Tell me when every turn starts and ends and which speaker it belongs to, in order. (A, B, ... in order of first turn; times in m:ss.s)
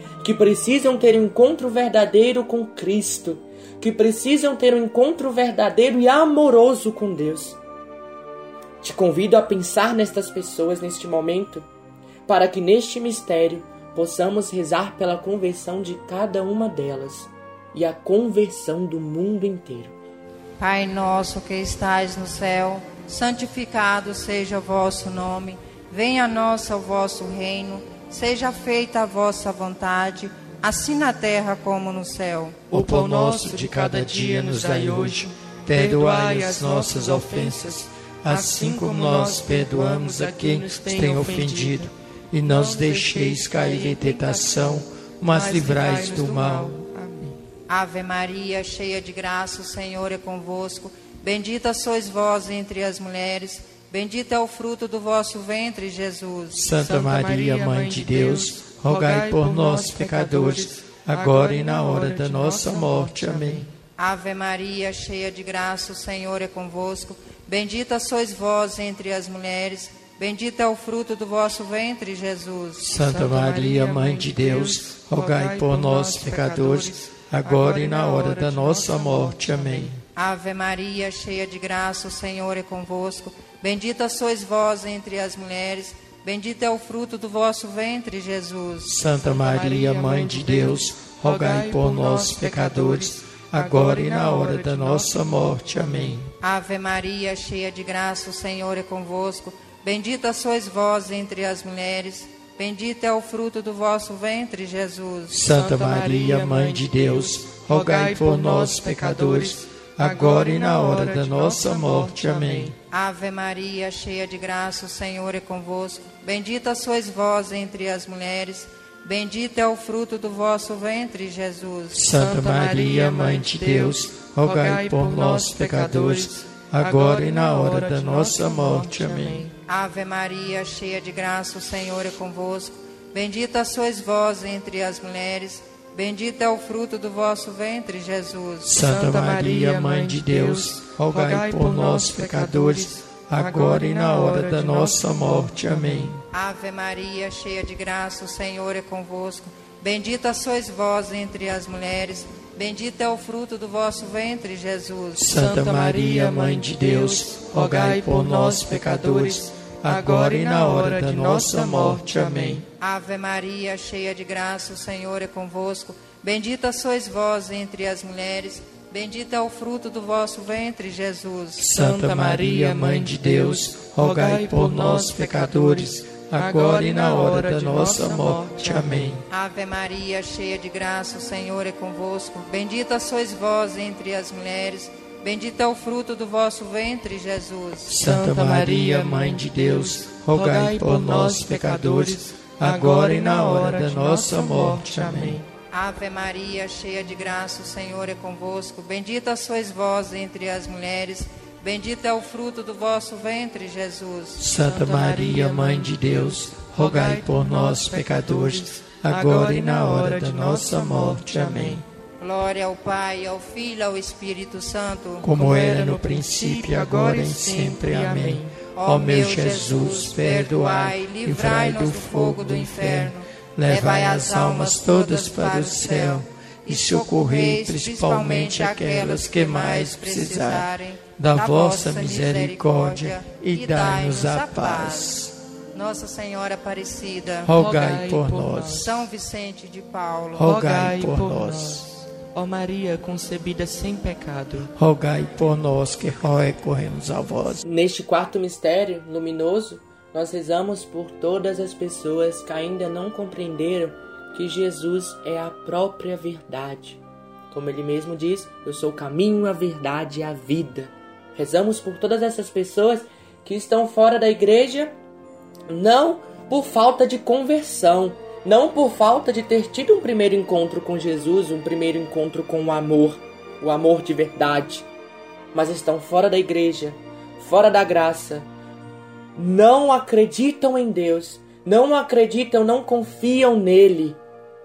0:00.2-0:07.6 A
0:08.8-0:11.7 A
0:12.3-0:19.9 A
0:20.6-0:32.7 B
0:32.7-0:41.9 C
0:32.7-0:46.8 D
0:42.4-0:47.3 C
0:47.7-0:56.6 B
0:56.5-1:03.7 D
0:56.8-1:03.7 C
1:04.0-1:12.9 B
1:12.8-1:20.0 D
1:13.0-1:19.9 C
1:20.2-1:28.9 B
1:28.8-1:36.3 D
1:29.3-1:36.0 C
1:36.4-1:45.4 B
1:45.3-1:52.8 D
1:45.5-1:52.7 C
1:52.9-2:02.1 B
2:01.9-2:09.5 D
2:02.1-2:09.5 C
2:09.7-2:18.8 B
2:18.6-2:26.2 D
2:18.8-2:26.1 C
2:26.3-2:35.3 B
2:35.1-2:42.6 D
2:35.3-2:42.6 C
2:42.8-2:51.7 B
2:51.6-2:59.2 D
2:51.7-2:59.1 C
2:59.3-3:08.0 B
3:07.8-3:15.4 D
3:08.0-3:15.5 C
3:15.7-3:24.5 B
3:24.4-3:31.8 D
3:24.6-3:31.8 C
3:32.2-3:35.3 B
3:35.2-3:55.3 D
3:35.3-3:38.6 C
3:38.7-3:55.2 B
3:55.7-3:57.5 B
3:57.4-3:58.9 D
3:57.5-3:59.0 C
3:58.6-4:00.5 B
4:00.3-4:01.8 D
4:00.4-4:04.7 C
4:04.8-4:07.6 D
4:07.6-4:24.9 A
4:25.7-4:34.9 A
4:35.5-4:38.5 A
4:39.3-4:44.2 A